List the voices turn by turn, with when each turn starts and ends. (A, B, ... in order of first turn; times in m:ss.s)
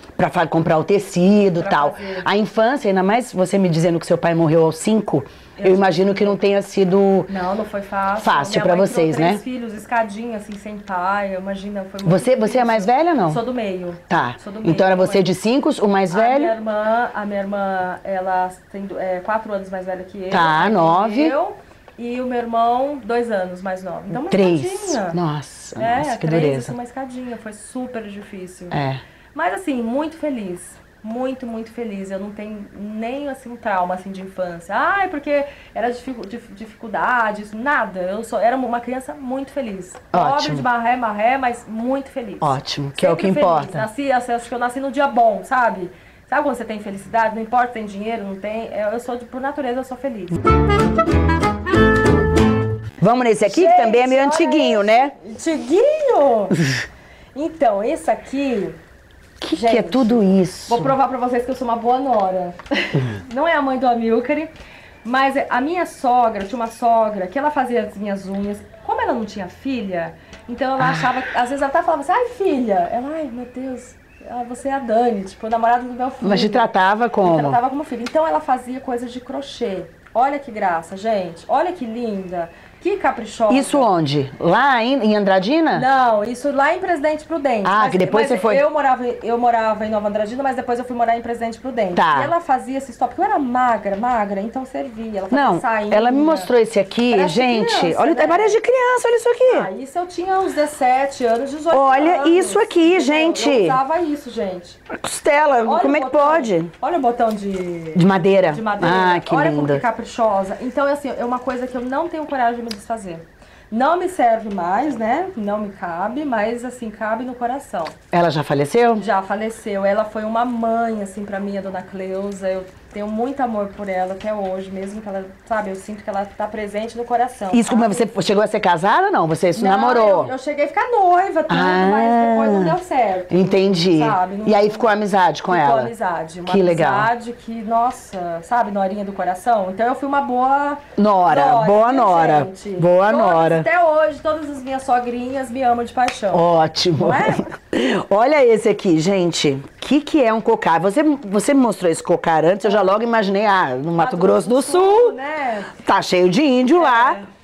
0:00.2-0:07.3 A
0:01.6-0:02.3 B
0:05.6-0:06.4 B
0:07.3-0:15.3 B
0:08.2-0:09.4 A
0:12.0-0:13.4 A
0:14.1-0:16.6 A
0:16.1-0:25.2 B
0:20.3-0:21.3 A
0:24.1-0:26.7 A
0:25.8-0:28.8 B
0:28.7-0:29.0 A
0:29.3-0:50.4 B
0:40.1-0:40.6 A
0:42.4-0:43.9 A
0:53.0-0:55.1 A
0:53.4-0:56.6 B
0:57.4-0:58.8 B
0:59.4-1:00.9 A
0:59.5-1:04.5 B
1:05.0-1:16.7 B
1:10.8-1:11.1 A
1:16.2-1:17.6 A
1:17.2-1:23.9 B
1:23.5-1:25.9 A
1:25.7-1:36.5 B
1:27.6-1:28.6 A
1:31.9-1:32.3 A
1:35.3-1:39.7 A
1:37.1-1:38.6 B
1:39.4-1:44.8 B
1:41.7-1:43.8 A
1:44.9-1:46.7 A
1:45.6-1:58.0 B
1:48.0-1:49.8 A
1:58.1-1:59.0 A
1:59.0-2:08.1 B
2:07.5-2:10.3 A
2:09.6-2:14.9 B
2:11.5-2:12.8 A
2:13.3-2:15.9 A
2:15.5-2:26.4 B
2:16.5-2:17.1 A
2:21.0-2:23.7 A
2:26.3-2:35.1 A
2:27.0-2:27.5 B
2:32.6-2:32.9 B
2:34.0-2:35.8 B
2:35.8-2:37.2 A
2:36.7-2:37.3 B